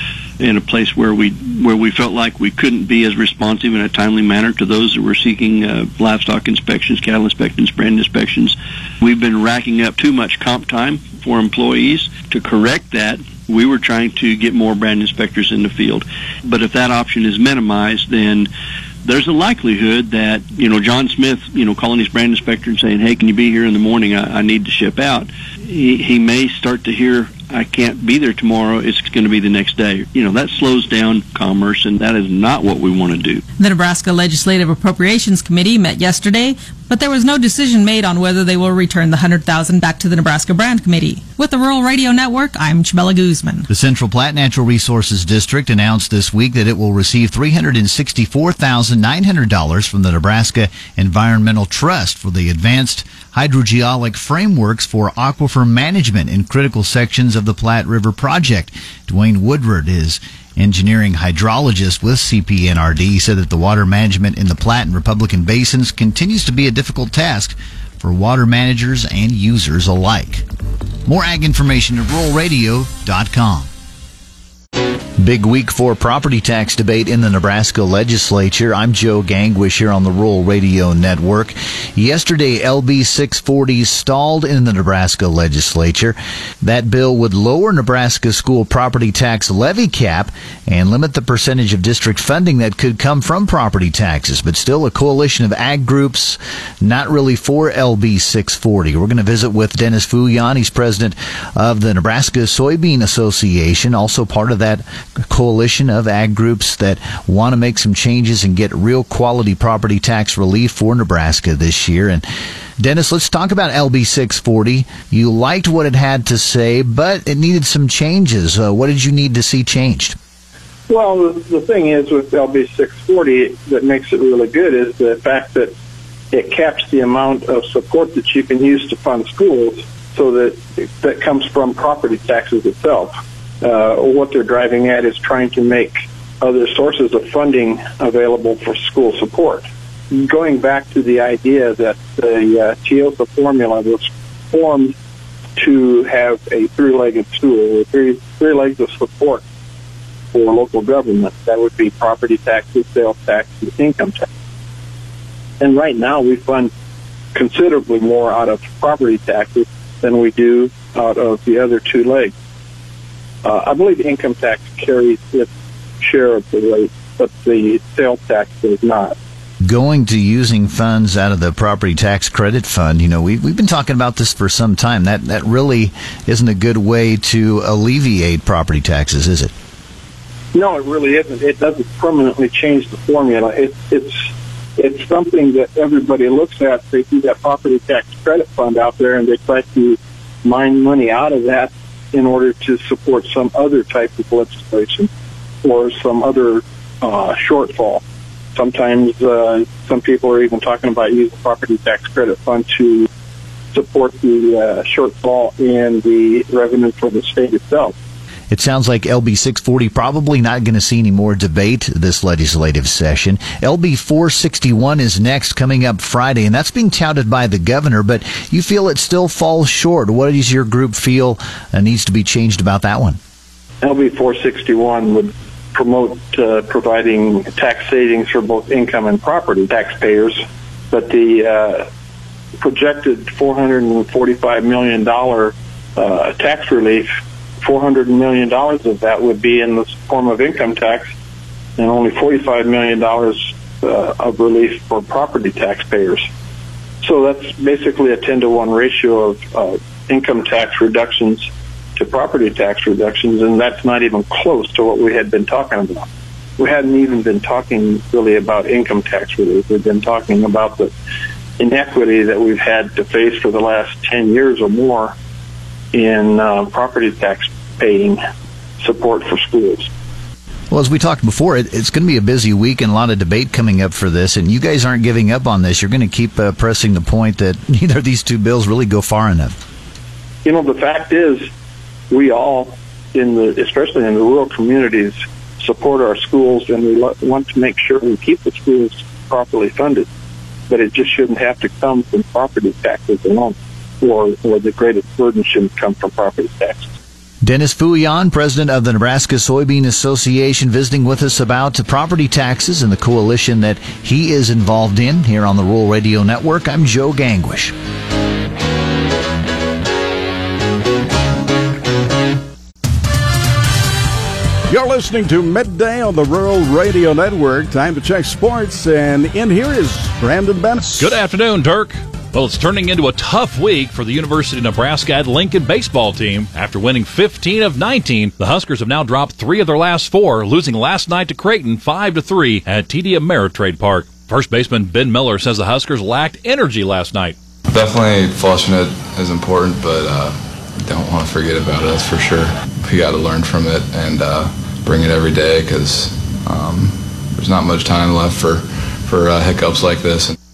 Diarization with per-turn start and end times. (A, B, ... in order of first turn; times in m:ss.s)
0:00.4-0:18.5 A
0:19.0-0:33.4 A
0:33.6-0:43.7 B
0:43.7-1:10.4 C
1:11.0-1:13.7 C
1:15.2-1:52.2 C
1:52.8-2:00.2 C
2:00.9-2:05.7 D
2:06.3-2:24.9 D
2:25.6-2:29.4 D
2:30.3-2:34.3 D
2:35.6-2:36.7 D
2:37.4-2:42.3 D
2:43.4-2:49.2 D
2:49.6-2:59.5 C
3:00.5-3:15.1 D
3:15.6-3:18.0 D
3:18.6-3:23.1 D
3:23.7-3:27.9 D
3:28.5-3:43.2 C
3:43.8-3:51.9 D
3:52.6-3:57.1 D
3:57.6-4:01.1 D
4:01.8-4:06.2 D
4:07.0-4:20.9 D
4:21.6-4:25.2 D
4:25.9-4:28.2 D
4:28.8-4:29.9 D
4:30.7-4:39.6 C
4:40.4-4:41.5 D
4:42.1-4:50.1 D
4:50.7-4:57.0 D
4:57.4-5:07.7 C
5:14.7-5:21.2 E
5:21.0-5:37.4 F
5:37.7-5:50.4 G